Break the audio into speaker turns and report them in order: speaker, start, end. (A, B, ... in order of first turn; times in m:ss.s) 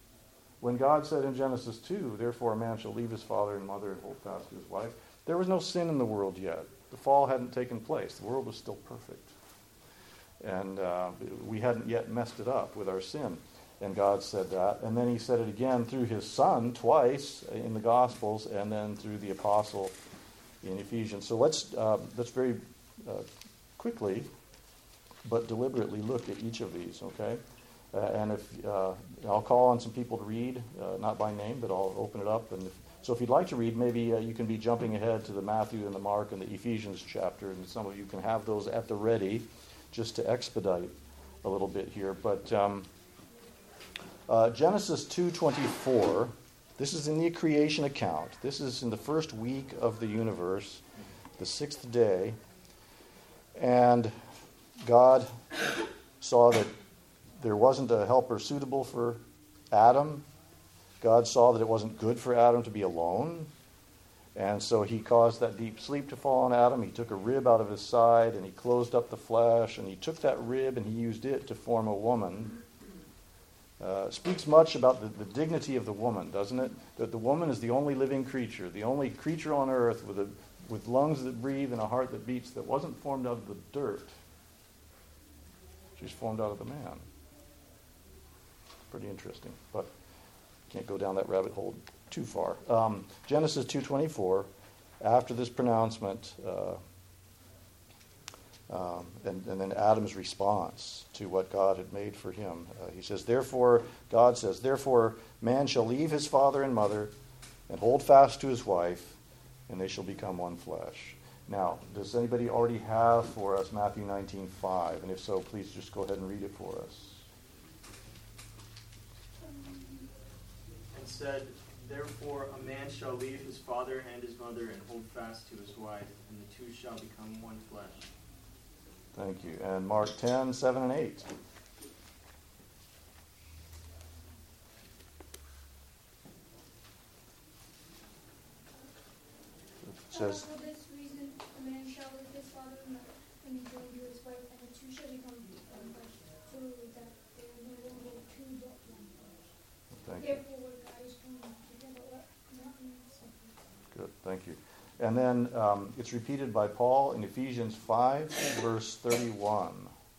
0:00.6-0:09.3 A
0:10.4-0:19.9 A
0:20.6-0:23.3 A
0:23.8-0:24.3 A
0:25.2-0:27.4 A
0:27.9-0:42.9 A
0:44.3-0:50.8 A
0:51.4-0:52.4 A
0:53.5-0:54.1 A
0:54.8-0:55.4 A
0:56.2-0:56.7 A
0:57.4-1:00.2 A
1:01.0-1:03.5 A
1:04.3-1:12.5 A
1:13.8-1:24.1 A
1:26.0-1:27.0 A
1:28.9-1:29.9 A
1:30.7-1:34.5 A
1:35.0-1:36.8 A
1:38.7-1:47.1 A
1:47.7-1:49.2 A
1:49.7-1:57.2 A
1:59.4-2:00.1 B
2:00.9-2:08.1 C
2:09.1-2:11.3 A
2:19.8-2:20.4 A
2:20.1-2:29.5 B
2:29.9-2:30.4 A
2:30.2-2:33.6 B
2:33.9-2:39.9 A